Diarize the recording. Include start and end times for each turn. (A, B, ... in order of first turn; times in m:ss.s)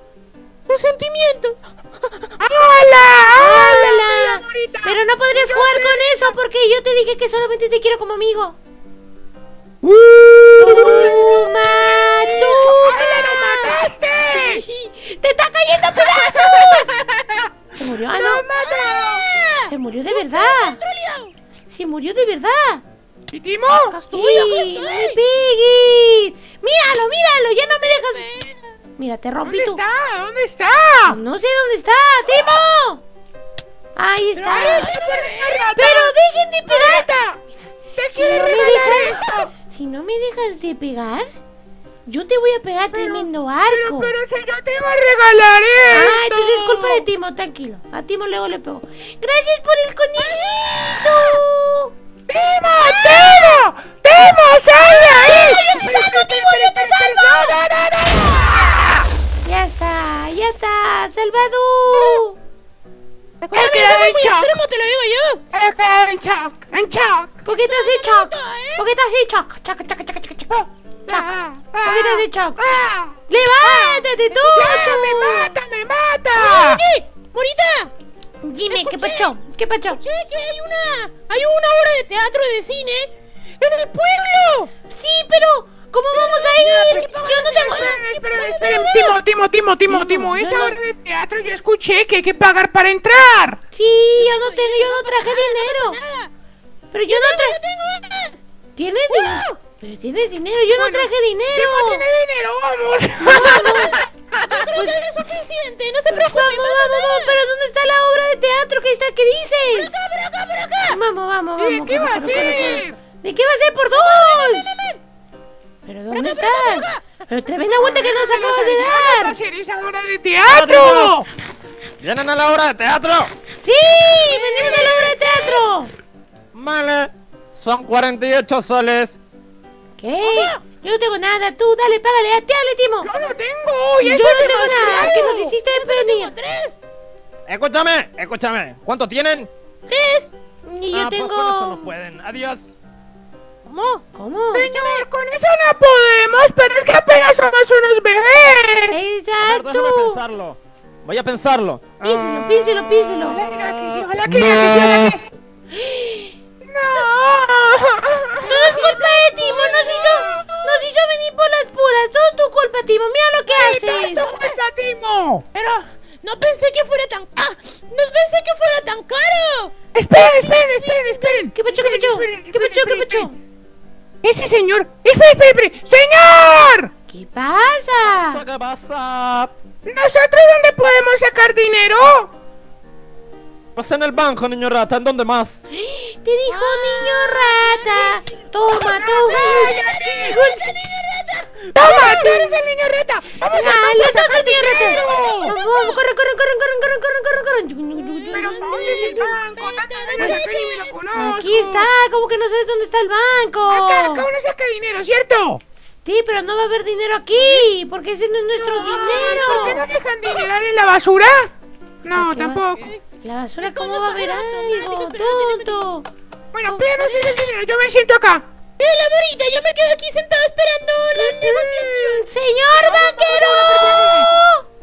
0:00.7-0:01.6 A
0:02.4-0:06.4 B
0:03.3-0:08.6 C
0:09.8-0:14.6 B
0:10.6-0:13.8 C
0:14.7-0:16.9 C
0:16.0-0:17.5 B
0:17.8-0:18.4 C
0:18.1-0:19.3 B
0:18.6-0:21.3 A
0:19.7-0:20.8 C
0:21.7-0:22.8 C
0:23.3-0:24.0 B
0:23.9-0:25.2 A
0:23.9-0:28.2 C
0:27.8-0:28.6 A
0:29.0-0:29.8 C
0:29.4-0:31.2 B
0:31.1-0:33.0 C
0:34.0-0:34.9 C
0:34.4-0:35.7 A
0:34.5-0:36.1 B
0:35.8-0:37.1 C
0:36.6-0:37.4 B
0:38.0-0:39.5 B
0:38.1-0:41.3 C
0:42.0-0:44.1 C
0:42.9-0:47.0 B
0:45.9-0:51.9 C
0:50.2-0:50.8 A
0:52.3-0:59.0 B
0:55.2-0:57.6 C
0:59.4-1:02.4 C
1:03.4-1:05.4 A
1:03.5-1:04.5 B
1:05.5-1:07.4 B
1:07.4-1:10.6 C
1:07.6-1:08.8 A
1:10.5-1:16.8 B
1:11.1-1:12.6 C
1:13.3-1:15.5 C
1:14.3-1:15.0 A
1:16.4-1:17.9 A
1:18.4-1:20.0 C
1:18.7-1:19.3 A
1:20.0-1:24.7 A
1:24.9-1:27.9 C
1:26.1-1:29.2 A
1:27.4-1:33.6 B
1:29.9-1:30.8 C
1:33.7-1:36.0 C
1:34.2-1:36.3 A
1:36.9-1:37.6 C
1:37.1-1:38.4 A
1:38.8-1:42.0 C
1:39.1-1:39.5 A
1:40.7-1:44.7 B
1:43.2-1:44.0 C
1:44.4-1:47.4 A
1:46.1-1:50.0 C
1:49.6-1:51.0 A
1:50.9-1:54.7 C
1:51.6-1:53.0 B
1:53.9-1:55.0 A
1:55.8-1:59.4 C
1:56.1-1:57.0 A
1:57.8-2:01.3 B
2:00.4-2:01.2 D
2:02.0-2:03.3 D
2:03.6-2:05.9 C
2:04.6-2:05.2 B
2:04.6-2:04.9 A
2:06.5-2:09.2 D
2:10.0-2:13.1 C
2:10.2-2:10.6 A
2:13.0-2:15.5 B
2:14.0-2:16.3 C
2:14.2-2:16.8 A
2:17.5-2:19.5 D
2:19.9-2:20.3 A
2:20.6-2:21.9 C
2:20.9-2:22.7 D
2:23.6-2:24.0 A
2:24.1-2:24.7 C
2:24.5-2:29.0 B
2:24.6-2:25.1 A
2:28.9-2:30.2 C
2:29.4-2:32.3 D
2:32.0-2:33.4 C
2:33.2-2:35.3 B
2:34.2-2:35.1 D
2:35.7-2:36.4 C
2:36.6-2:40.5 B
2:38.4-2:44.4 C
2:43.5-2:45.4 B
2:45.5-2:49.7 A
2:49.9-2:53.3 B
2:50.4-2:51.5 A
2:51.5-2:53.4 C
2:54.2-2:56.9 B
2:57.1-2:58.4 C
2:58.0-2:59.5 D
2:59.8-3:02.3 B
3:03.8-3:05.6 D
3:05.7-3:09.8 C
3:06.5-3:08.2 A
3:08.7-3:10.4 B
3:09.3-3:12.2 A
3:10.3-3:10.7 C
3:11.7-3:15.5 B
3:11.8-3:12.5 C
3:13.5-3:19.4 C
3:14.7-3:16.0 A
3:18.3-3:20.9 A
3:18.3-3:21.9 B
3:21.1-3:24.2 C
3:23.7-3:25.6 B
3:26.0-3:29.9 C
3:27.3-3:27.7 A
3:28.6-3:31.5 B
3:29.1-3:29.6 A
3:32.0-3:32.9 B
3:32.1-3:32.6 C
3:33.2-3:36.1 C
3:33.6-3:35.9 A
3:36.5-3:38.4 B
3:36.9-3:37.5 A
3:38.8-3:42.2 A
3:41.2-3:44.6 C
3:42.7-3:44.3 B